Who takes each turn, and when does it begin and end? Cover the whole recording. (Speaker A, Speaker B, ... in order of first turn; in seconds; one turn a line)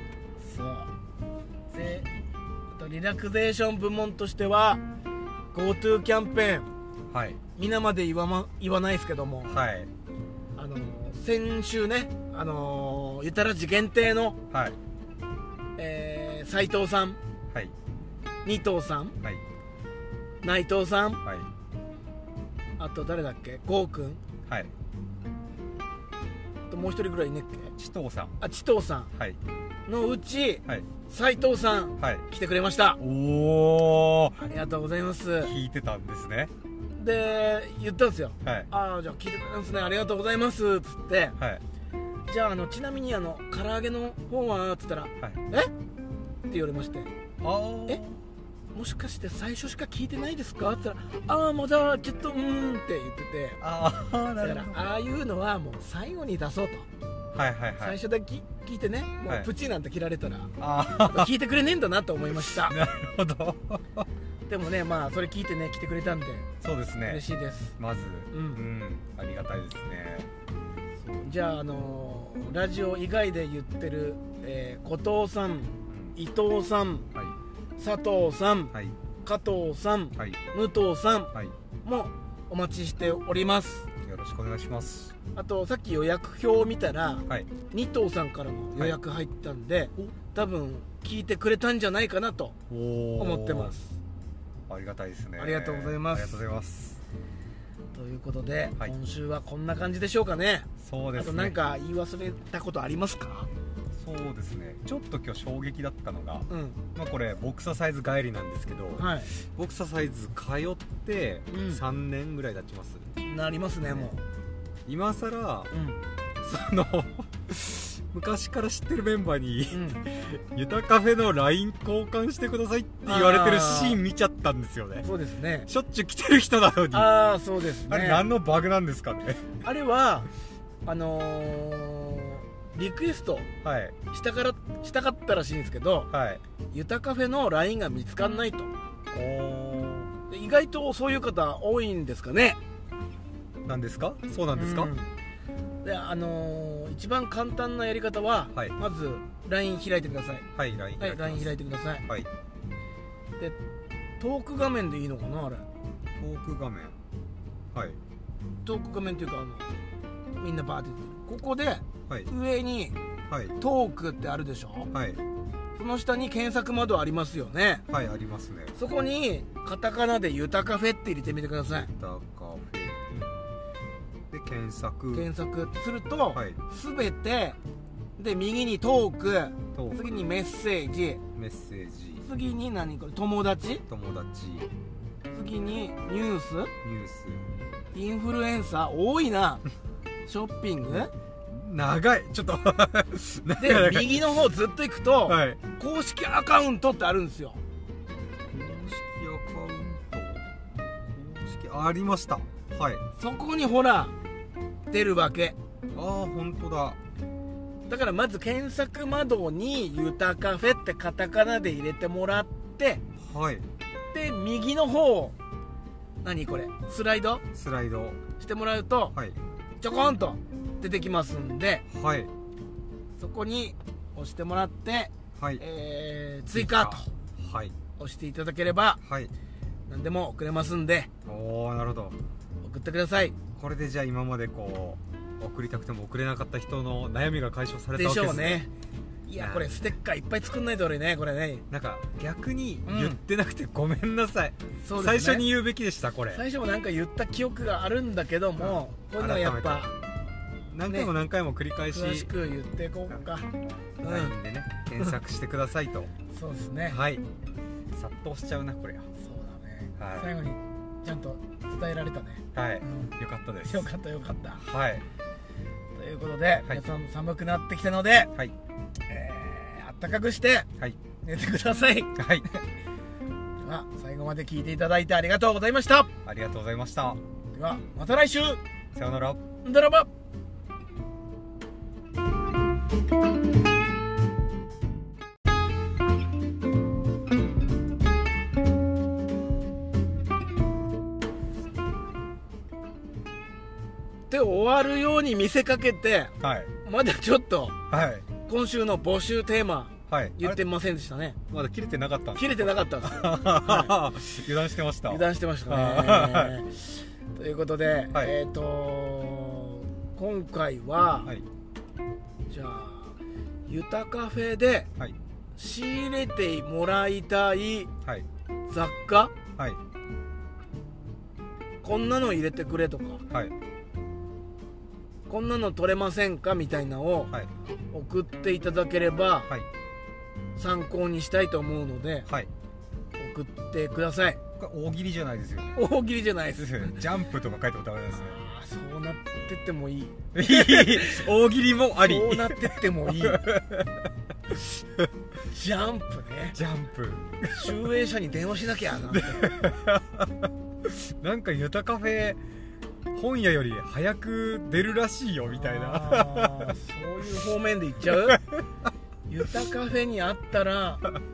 Speaker A: 0.4-0.9
Speaker A: 1.7-2.2
Speaker A: 2.7-4.8
Speaker A: 5.5-6.7
Speaker B: 7.1-7.4
Speaker A: 7.5-9.6
Speaker B: 9.5-9.9
Speaker A: 10.6-14.4
Speaker B: 14.5-14.8
Speaker A: 15.8-17.2
Speaker A: 18.4-19.2
Speaker A: 20.4-21.2
Speaker A: 22.8-24.2
Speaker A: 26.7-27.7
Speaker B: 27.8-28.4
Speaker A: 28.4-29.1
Speaker B: 29.1-29.4
Speaker A: 29.9-33.0
Speaker B: 32.0-32.2
Speaker B: 33.0-34.4
Speaker A: 34.4-35.5
Speaker B: 35.4-36.5
Speaker A: 37.0-41.4
Speaker B: 38.4-38.7
Speaker A: 42.3-45.7
Speaker A: 46.5-47.1
Speaker B: 47.4-48.2
Speaker A: 48.7-53.6
Speaker B: 53.6-54.9
Speaker A: 54.4-56.9
Speaker B: 57.3-58.0
Speaker A: 57.8-62.8
Speaker B: 60.6-61.3
Speaker B: 62.4-64.0
Speaker A: 64.5-66.5
Speaker B: 66.6-67.2
Speaker A: 67.0-67.8
Speaker B: 67.8-70.3
Speaker A: 68.3-68.6
Speaker A: 71.2-77.1
Speaker B: 75.9-76.2
Speaker A: 77.8-78.7
Speaker A: 79.2-81.3
Speaker A: 81.8-83.9
Speaker B: 84.0-85.1
Speaker A: 85.3-92.5
Speaker B: 92.7-93.8
Speaker A: 93.2-94.0
Speaker B: 94.7-97.0
Speaker A: 95.4-96.4
Speaker A: 97.9-103.5
Speaker B: 100.8-101.6
Speaker B: 103.9-113.1
Speaker A: 106.5-106.8
Speaker A: 109.0-109.3
Speaker A: 111.5-111.8
Speaker A: 113.2-114.2
Speaker B: 113.9-114.1
Speaker B: 114.8-115.7
Speaker A: 115.7-116.0
Speaker B: 116.4-125.1
Speaker A: 119.7-120.0
Speaker A: 123.0-124.0
Speaker A: 125.0-125.7
Speaker B: 125.7-127.2
Speaker A: 126.9-128.2
Speaker B: 127.8-129.6
Speaker A: 129.6-130.3
Speaker A: 130.8-133.5
Speaker B: 133.6-134.0
Speaker A: 134.1-136.1
Speaker B: 136.1-136.4
Speaker A: 136.7-138.7
Speaker B: 139.1-140.1
Speaker A: 140.3-142.6
Speaker B: 143.7-144.9
Speaker A: 144.5-145.1
Speaker A: 145.8-150.4
Speaker B: 150.5-151.5
Speaker A: 151.0-152.0
Speaker A: 154.2-155.7
Speaker B: 156.2-156.9
Speaker B: 157.7-158.0
Speaker A: 158.6-159.7
Speaker A: 160.4-162.9
Speaker B: 163.3-163.6
Speaker A: 163.6-164.9
Speaker B: 164.9-165.2
Speaker A: 165.8-167.8
Speaker B: 167.9-168.7
Speaker A: 168.8-171.9
Speaker B: 172.0-173.2
Speaker B: 174.3-175.3
Speaker A: 175.1-177.6
Speaker B: 176.3-176.6
Speaker A: 178.2-181.2
Speaker B: 179.7-180.2
Speaker B: 181.3-182.3
Speaker A: 182.2-183.8
Speaker B: 183.9-184.7
Speaker A: 185.3-186.7
Speaker B: 186.8-187.4
Speaker A: 187.9-189.6
Speaker A: 190.2-191.1
Speaker B: 190.9-194.2
Speaker A: 193.6-197.6
Speaker B: 195.3-195.6
Speaker B: 198.4-200.4
Speaker B: 201.1-203.0
Speaker A: 203.2-204.1
Speaker A: 204.9-205.6
Speaker B: 205.9-207.0
Speaker A: 207.9-213.0
Speaker B: 213.2-213.7
Speaker A: 214.1-215.3
Speaker A: 216.2-217.4
Speaker B: 217.5-218.2
Speaker A: 218.4-219.2
Speaker A: 219.8-221.8
Speaker B: 221.9-222.3
Speaker A: 223.2-227.1
Speaker B: 225.4-225.6
Speaker B: 226.5-227.8
Speaker A: 228.0-229.0
Speaker B: 229.0-229.3
Speaker A: 229.9-231.1
Speaker B: 231.2-232.2
Speaker A: 232.6-233.3
Speaker B: 233.6-238.7
Speaker A: 237.9-238.7
Speaker A: 239.3-241.6
Speaker B: 239.4-239.8
Speaker B: 241.7-246.4
Speaker A: 242.8-243.2
Speaker A: 244.8-245.5
Speaker A: 246.3-249.9
Speaker B: 248.6-249.9
Speaker B: 250.7-252.3
Speaker A: 250.9-251.1
Speaker A: 251.9-253.5
Speaker B: 254.0-256.1
Speaker A: 254.0-254.3
Speaker A: 256.3-257.0
Speaker B: 256.9-257.2
Speaker B: 257.9-259.1
Speaker A: 259.2-264.6
Speaker B: 260.0-260.3
Speaker B: 262.5-263.9
Speaker B: 264.6-265.0
Speaker A: 265.9-268.3
Speaker A: 269.1-270.7
Speaker A: 271.2-272.6
Speaker B: 272.1-272.4
Speaker A: 273.6-276.1
Speaker B: 276.2-277.2
Speaker A: 277.5-278.6
Speaker B: 278.9-279.4
Speaker A: 279.6-280.1
Speaker A: 294.3-297.8
Speaker B: 296.4-296.7
Speaker B: 297.9-298.2
Speaker A: 298.4-301.4
Speaker B: 300.1-300.6
Speaker B: 301.5-306.6
Speaker A: 302.4-303.9
Speaker A: 305.1-311.3
Speaker A: 312.5-313.1
Speaker A: 313.7-314.9
Speaker A: 315.6-317.9
Speaker B: 318.0-318.3
Speaker A: 318.7-319.3
Speaker A: 321.8-323.2
Speaker A: 325.3-327.3
Speaker A: 327.9-329.5
Speaker A: 330.6-332.3
Speaker A: 333.2-334.4
Speaker B: 334.6-335.8
Speaker A: 335.7-337.0
Speaker B: 336.5-338.4
Speaker A: 338.1-341.3
Speaker B: 340.3-345.1
Speaker A: 342.0-343.4
Speaker A: 345.5-346.6
Speaker B: 346.5-347.7
Speaker A: 347.4-349.5
Speaker B: 349.1-352.4
Speaker B: 353.1-356.7
Speaker A: 355.5-358.4
Speaker B: 358.1-358.6
Speaker A: 359.3-361.1